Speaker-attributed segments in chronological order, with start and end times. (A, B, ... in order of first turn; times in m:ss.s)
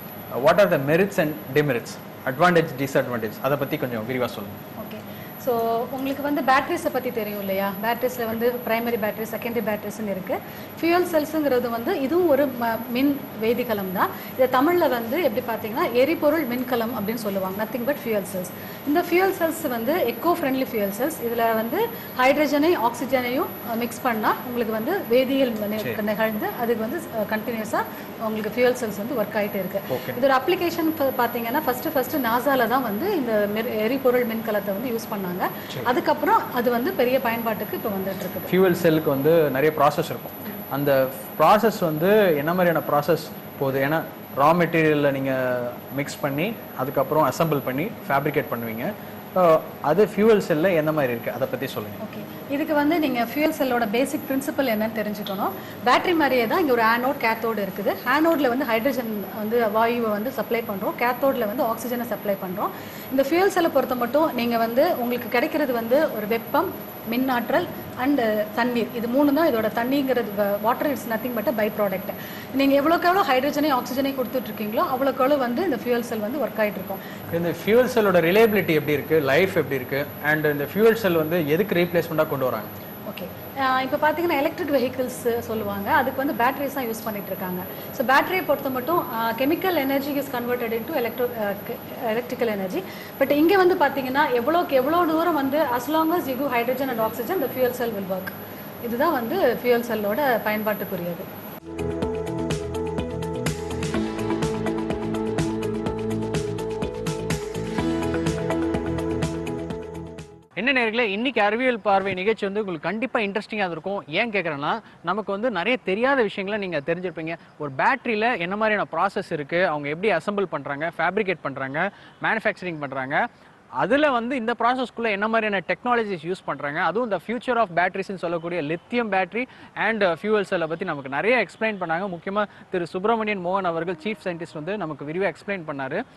0:00.3-0:04.6 A
0:04.8-0:38.5 B
0:29.9-0:30.2 A
0:38.5-0:52.0 A
0:52.0-1:17.0 B
1:17.3-1:22.7 A
1:23.1-1:41.2 B
1:50.6-2:03.2 A
2:03.8-2:16.0 A